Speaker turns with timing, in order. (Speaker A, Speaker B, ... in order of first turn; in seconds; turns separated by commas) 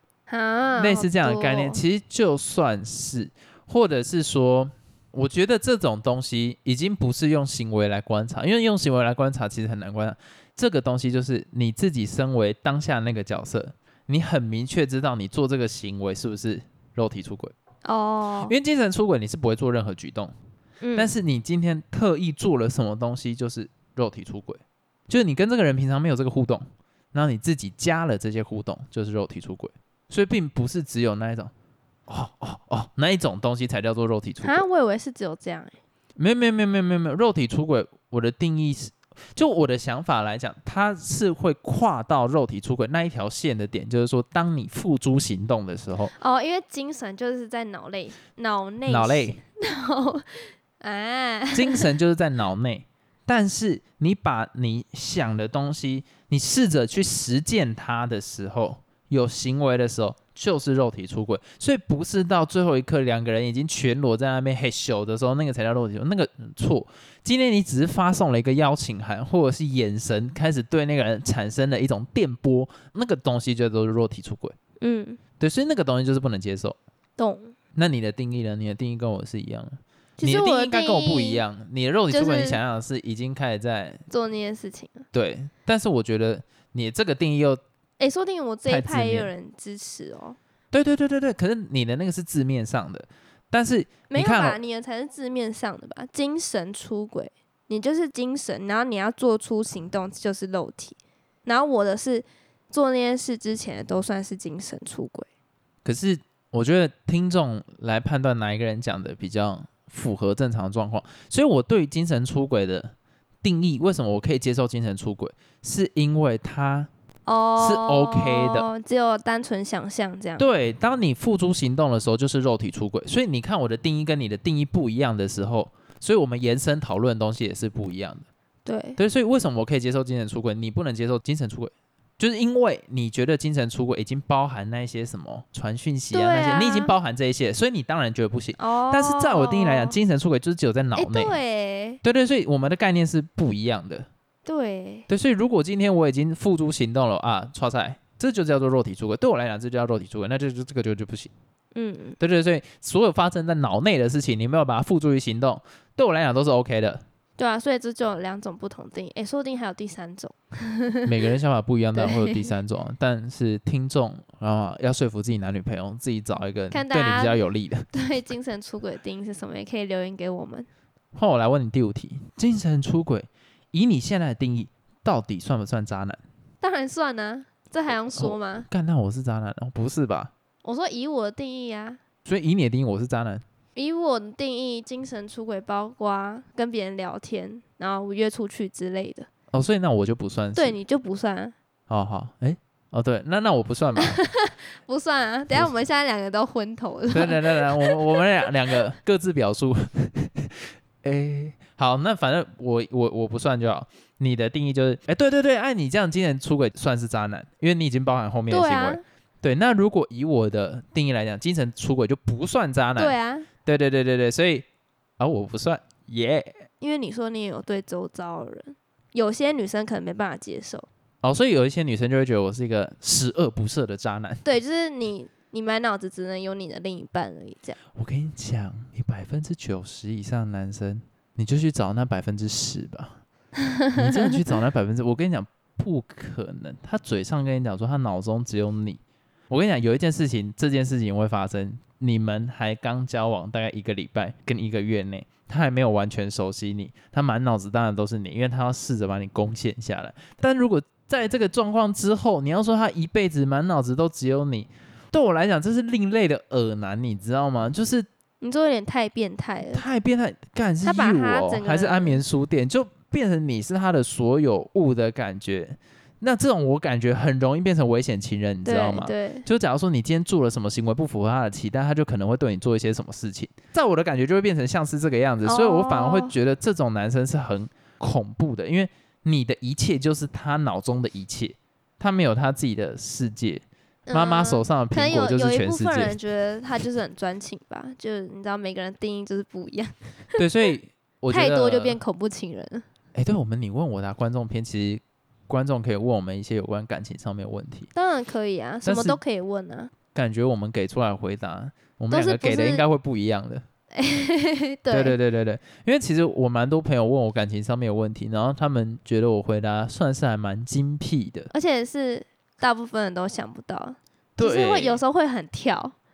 Speaker A: 0.3-1.8, Speaker B: 0.8-17.5, Speaker A: 17.8-18.6, Speaker B: 18.4-20.3, Speaker A: 20.8-21.1, Speaker B: 20.9-31.5, Speaker B: 32.1-34.6, Speaker A: 34.4-35.7, Speaker B: 36.2-46.1, Speaker A: 46.1-51.9, Speaker B: 48.9-49.4, Speaker B: 51.5-74.6, Speaker A: 74.8-75.2, Speaker B: 75.4-76.8, Speaker A: 77.2-77.5, Speaker B: 77.8-84.0, Speaker A: 80.2-81.4, Speaker A: 82.1-82.6, Speaker A: 84.1-85.0, Speaker B: 85.1-87.6, Speaker A: 88.0-90.4, Speaker B: 88.7-89.3, Speaker B: 90.7-94.6, Speaker A: 94.1-105.3, Speaker B: 105.8-116.9, Speaker A: 117.3-120.4, Speaker B: 117.6-118.7, Speaker B: 120.4-128.3, Speaker A: 128.6-129.0, Speaker B: 129.0-141.3, Speaker A: 136.1-136.9, Speaker A: 138.6-140.0, Speaker A: 140.9-142.0, Speaker B: 142.0-144.1, Speaker A: 144.4-145.1, Speaker B: 145.1-151.3, Speaker A: 151.8-152.2, Speaker B: 152.2-157.0, Speaker A: 157.4-161.1, Speaker B: 161.1-167.9, Speaker A: 161.9-162.5, Speaker A: 166.7-167.4, Speaker A: 167.9-170.7, Speaker B: 171.1-176.2, Speaker A: 176.6-178.7, Speaker B: 178.1-180.3, Speaker A: 180.6-182.0, Speaker B: 182.3-183.4, Speaker A: 183.8-189.3, Speaker B: 189.5-190.8, Speaker A: 190.6-191.5, Speaker B: 191.9-194.2, Speaker A: 194.0-197.9, Speaker B: 197.1-214.7, Speaker A: 208.5-209.0, Speaker A: 213.0-213.5, Speaker B: 215.2-216.6, Speaker A: 216.8-220.9, Speaker B: 221.2-224.4, Speaker A: 224.4-227.8, Speaker B: 227.9-233.2, Speaker A: 233.7-234.1, Speaker B: 233.9-258.1, Speaker A: 258.4-259.8, Speaker B: 259.7-286.2, Speaker A: 260.8-262.2, Speaker A: 268.6-269.4, Speaker A: 275.4-276.4, Speaker A: 284.1-290.4, Speaker B: 290.4-292.0, Speaker A: 291.3-292.9, Speaker B: 293.1-297.9, Speaker A: 297.9-299.9, Speaker B: 298.8-299.2, Speaker B: 300.1-303.6, Speaker A: 302.1-302.9, Speaker A: 303.9-305.1, Speaker B: 304.9-311.5, Speaker A: 311.5-315.9, Speaker B: 314.4-315.0